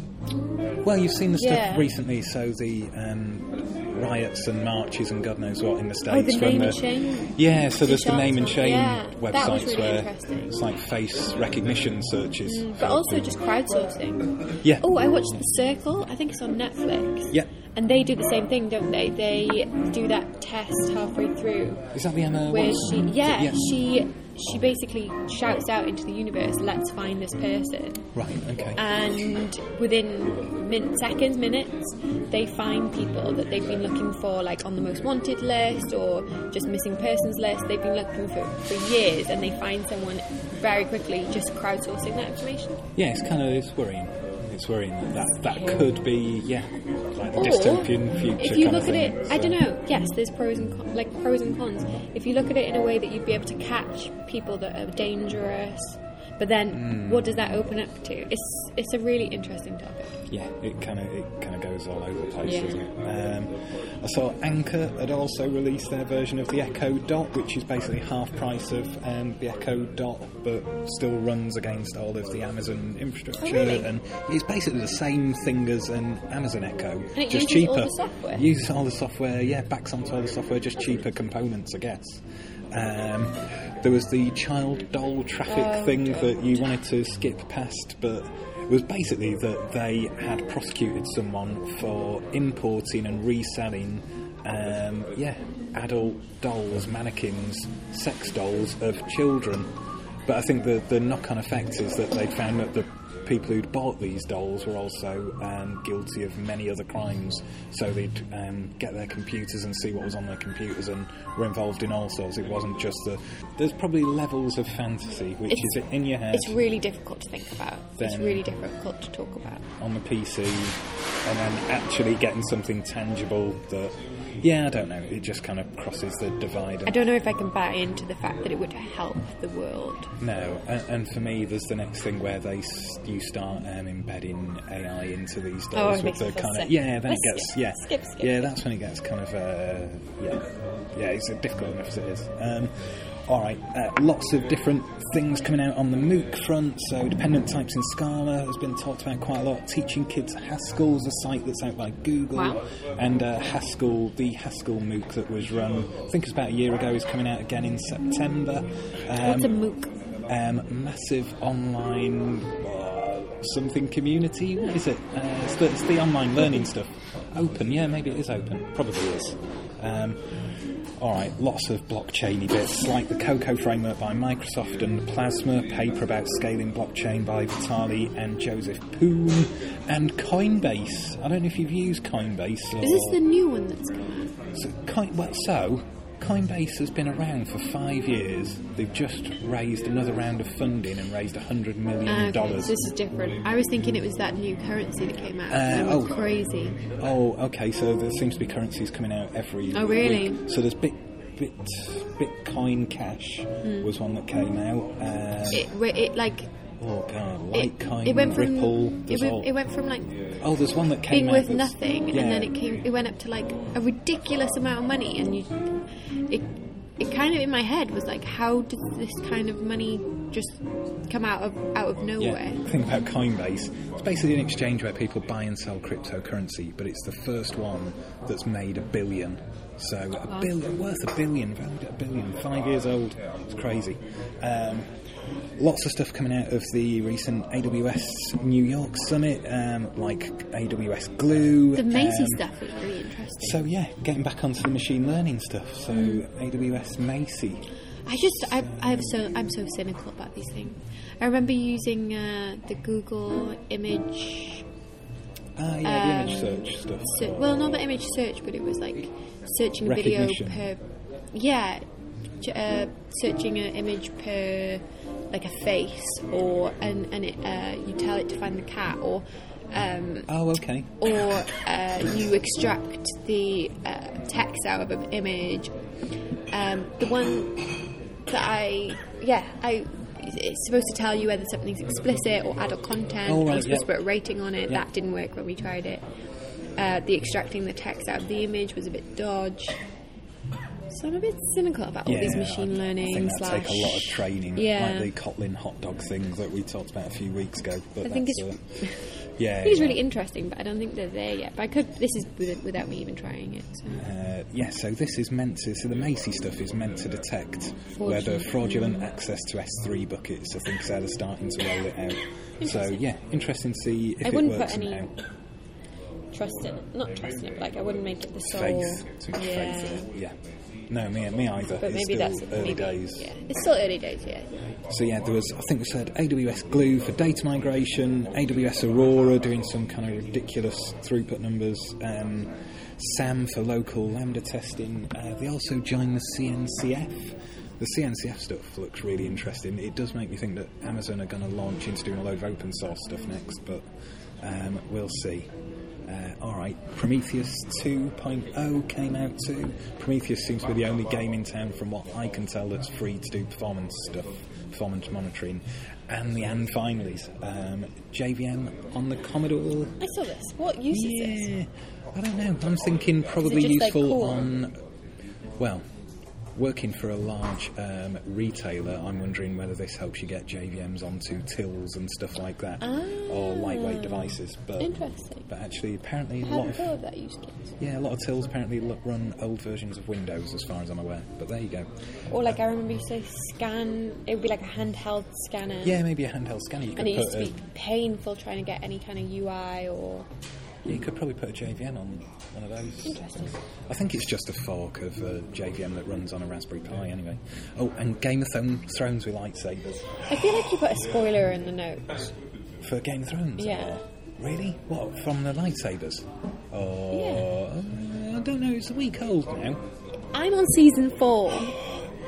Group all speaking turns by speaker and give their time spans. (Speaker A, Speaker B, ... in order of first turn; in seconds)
Speaker A: 0.8-13.3, 21.9-23.7, 28.1-28.8, 43.0-49.6, 56.7-57.4, 60.3-99.7, 100.3-116.5, 118.0-118.4, 119.8-126.9, 130.2-142.7, 143.3-159.6, 160.3-170.2, 171.0-183.2, 184.5-192.8, 195.5-196.3, 197.0-205.7, 206.8-209.5, 210.4-212.5, 222.2-234.9, 235.6-242.4, 243.4-247.7, 248.2-249.1, 255.6-257.6, 259.8-260.7, 270.3-271.0, 283.2-283.9, 292.1-298.6, 299.4-300.0, 303.9-315.1, 318.4-320.3, 320.9-323.3, 324.9-343.8, 344.4-345.5, 346.1-360.0, 360.9-364.7, 366.5-374.9, 375.5-376.9, 377.8-381.9, 385.8-387.6, 390.9-400.2, 402.8-409.8, 411.7-412.0
Speaker B: 1.4-1.9, 6.1-10.6, 12.4-21.9, 22.4-28.0, 28.8-42.8, 47.3-60.2, 62.4-62.8, 73.4-73.9, 77.2-78.4, 85.5-86.6, 115.5-115.8, 116.3-119.6, 126.8-130.1, 135.7-138.6, 152.3-152.6, 159.2-159.9, 182.8-184.3, 192.1-196.8, 199.7-200.4, 203.6-203.9, 205.5-206.5, 207.5-210.3, 211.1-215.7, 216.3-222.6, 241.7-243.6, 245.9-246.2, 248.1-254.6, 255.8-261.8, 262.4-270.3, 271.0-275.7, 276.5-277.6, 278.3-286.0, 286.8-289.8, 290.9-295.1, 298.0-299.1, 299.6-304.1, 308.0-309.1, 312.6-313.0, 314.2-315.1, 316.3-320.1, 321.8-324.5, 360.0-361.5, 363.4-364.5, 372.8-375.5, 376.4-377.8, 382.3-386.0, 386.9-390.3, 393.0-393.5, 400.2-402.3, 403.6-404.0, 407.1-407.5, 410.3-411.7